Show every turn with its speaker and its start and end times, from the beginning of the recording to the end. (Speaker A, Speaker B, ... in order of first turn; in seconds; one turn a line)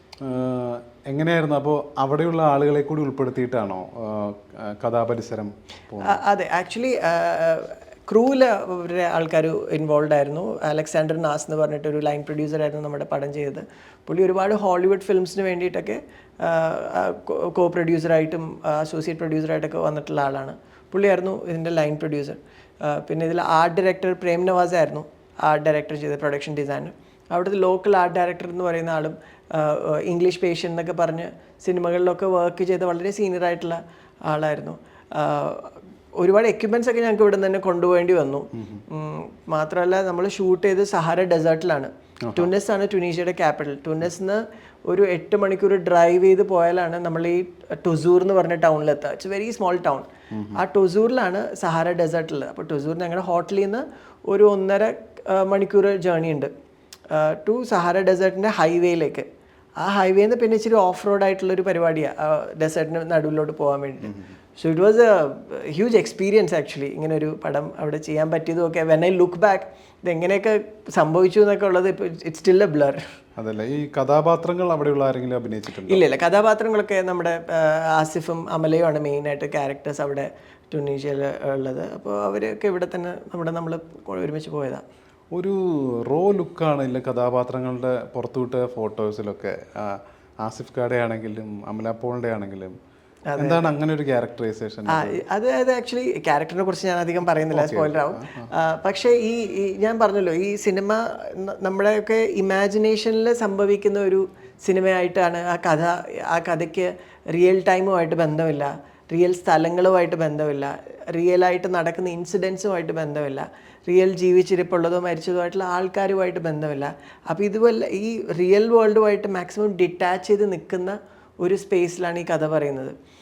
Speaker A: 0.2-6.2
Speaker B: 6.0-56.5
Speaker A: 38.5-38.8
Speaker A: 42.2-42.5
Speaker A: 50.3-50.6
Speaker B: 57.1-59.3
Speaker B: 59.8-73.0
Speaker A: 73.4-76.0
Speaker B: 75.8-84.8
Speaker A: 85.3-92.7
Speaker B: 93.3-93.7
Speaker A: 93.4-95.2
Speaker B: 94.9-123.0
Speaker A: 97.5-98.5